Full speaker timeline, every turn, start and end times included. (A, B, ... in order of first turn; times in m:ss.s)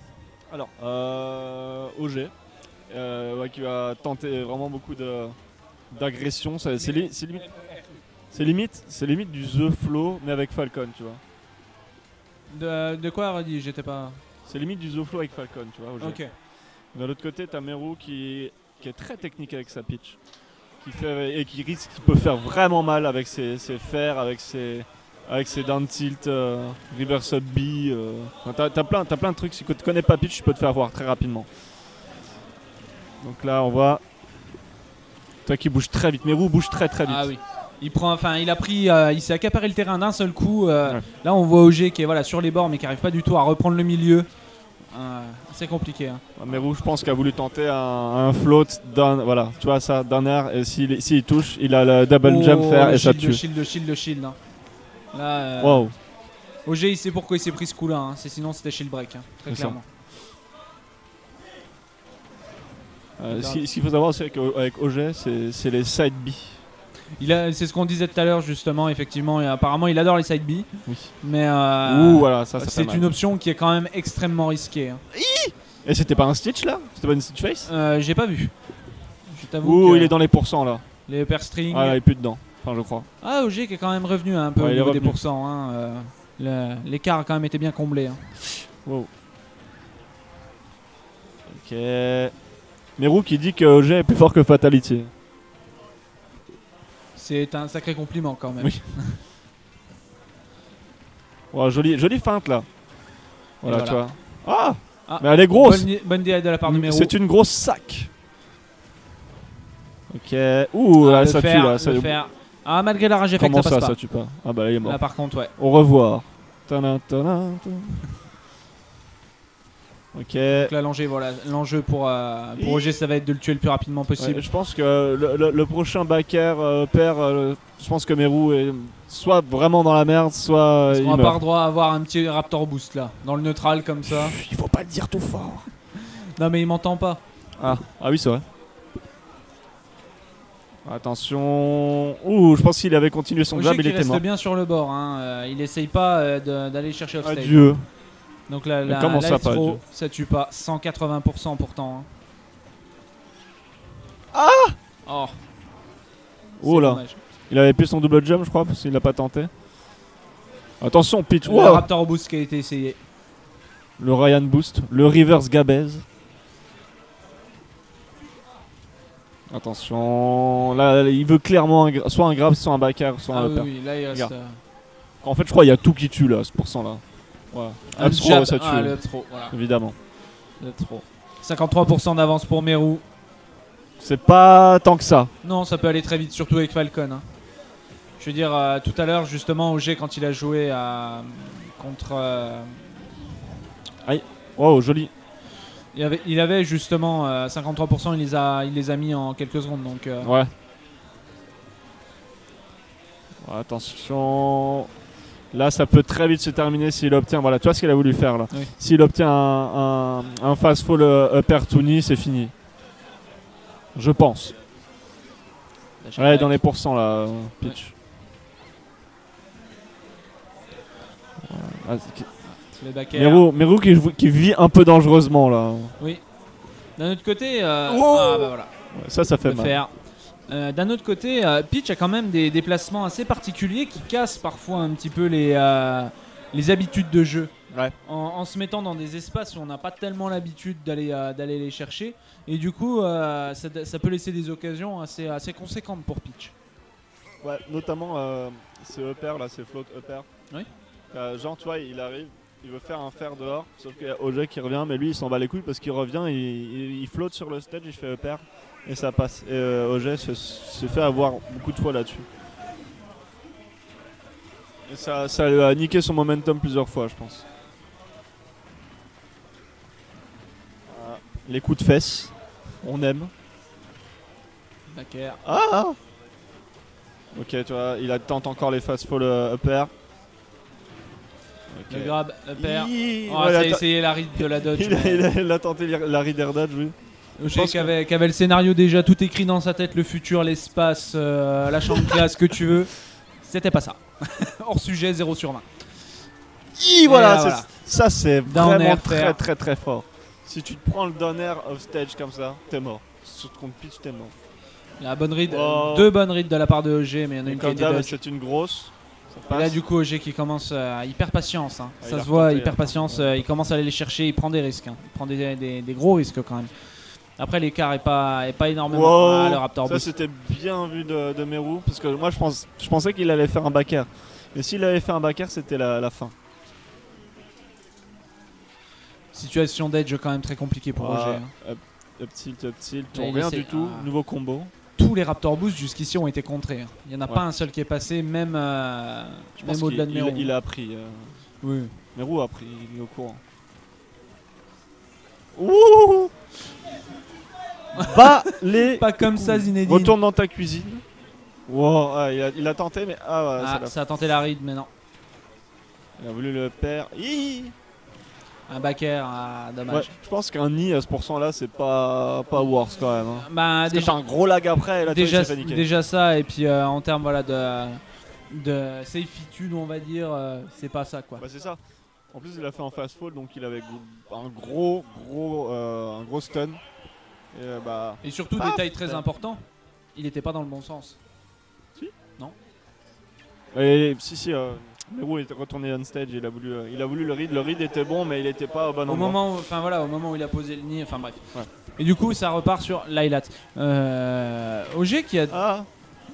0:00.5-0:02.3 A
0:02.9-0:05.4 A
0:05.9-0:11.2 A
0:12.5-0:14.2 B
0:14.4-0:31.5 A
0:16.0-0:16.3 B
0:33.2-0:34.0 A
0:35.4-0:37.3 A
0:37.0-0:46.6 B
0:46.4-0:53.4 A
0:52.2-0:59.8 B
0:55.6-0:55.9 A
0:59.4-0:59.8 A
1:03.2-1:06.6 A
1:03.3-1:03.6 B
1:07.2-1:10.7 B
1:10.8-1:11.1 A
1:11.2-1:15.0 B
1:11.8-1:13.1 A
1:15.1-1:17.7 A
1:17.6-1:20.2 B
1:19.6-1:20.9 A
1:21.1-1:22.0 B
1:21.7-1:23.1 A
1:23.2-1:28.4 B
1:24.6-1:25.2 A
1:28.8-1:29.1 A
1:31.5-1:32.4 A
1:33.0-1:35.1 A
1:37.1-1:39.2 B
1:38.6-1:38.9 A
1:41.5-1:42.8 A
1:43.6-1:45.9 A
1:43.6-1:44.1 B
1:45.1-1:47.1 B
1:46.6-1:48.1 A
1:50.1-1:52.2 A
1:51.0-1:54.0 B
1:53.4-1:58.1 A
1:54.8-1:55.5 B
2:00.1-2:00.7 A
2:00.5-2:04.4 B
2:02.6-2:03.0 A
2:04.2-2:11.4 A
2:10.9-2:14.3 B
2:14.0-2:15.6 A
2:15.9-2:17.2 B
2:17.6-2:18.4 A
2:20.8-2:24.2 A
2:23.5-2:27.7 B
2:27.2-2:27.9 A
2:28.4-2:32.1 B
2:28.8-2:29.8 A
2:34.3-2:34.8 A
2:35.0-2:35.4 B
2:36.6-2:39.5 A
2:36.6-2:37.2 B
2:40.8-2:41.9 A
2:41.4-2:43.0 B
2:44.0-2:46.0 A
2:49.5-2:54.3 A
2:53.3-2:54.6 B
2:55.2-3:00.0 A
2:57.9-2:59.6 B
3:00.6-3:03.0 B
3:04.0-3:05.3 A
3:05.4-3:07.3 B
3:08.2-3:13.1 B
3:14.0-3:15.1 A
3:15.9-3:20.4 B
3:20.2-3:20.5 A
3:23.4-3:24.9 A
3:25.5-3:32.5 A
3:33.9-3:34.5 A
3:36.0-3:36.6 B
3:36.1-3:37.9 A
3:41.4-3:42.6 A
3:42.4-3:43.4 B
3:43.1-3:46.0 A
3:46.9-3:48.7 B
3:47.9-3:49.8 A
3:49.4-4:06.5 B
3:57.7-3:57.9 A
4:07.4-4:10.3 A
4:11.1-4:22.2 A
4:24.9-4:27.4 A
4:30.9-4:33.3 A
4:34.9-4:35.4 B
4:35.4-4:36.0 A
4:37.3-4:39.9 A
4:41.7-4:47.9 A
4:41.9-4:45.3 B
4:47.4-4:56.2 B
4:52.0-4:52.2 A
4:56.7-5:04.3 A
4:57.0-4:57.8 B
4:58.4-4:59.4 B
5:05.0-5:08.2 B
5:05.4-5:06.1 A
5:07.4-5:09.8 A
5:09.5-5:20.1 B
5:12.0-5:13.4 A
5:18.9-5:26.3 A
5:29.3-5:31.5 B
5:31.0-5:34.7 A
5:33.1-5:34.1 B
5:35.0-5:40.5 B
5:39.6-5:41.4 A
5:41.6-5:42.0 B
5:42.1-5:43.4 A
5:45.6-5:46.3 A
5:47.9-5:50.1 B
5:47.9-5:51.0 A
5:51.7-5:53.9 A
5:53.6-5:54.9 B
5:56.2-5:57.7 A
5:58.7-6:00.1 B
5:59.9-6:05.9 A
6:03.4-6:04.2 B
6:05.0-6:11.4 B
6:11.4-6:16.8 A
6:17.5-6:19.2 A
6:18.2-6:21.2 B
6:23.7-6:29.4 A
6:29.1-6:35.6 B
6:35.5-6:35.9 A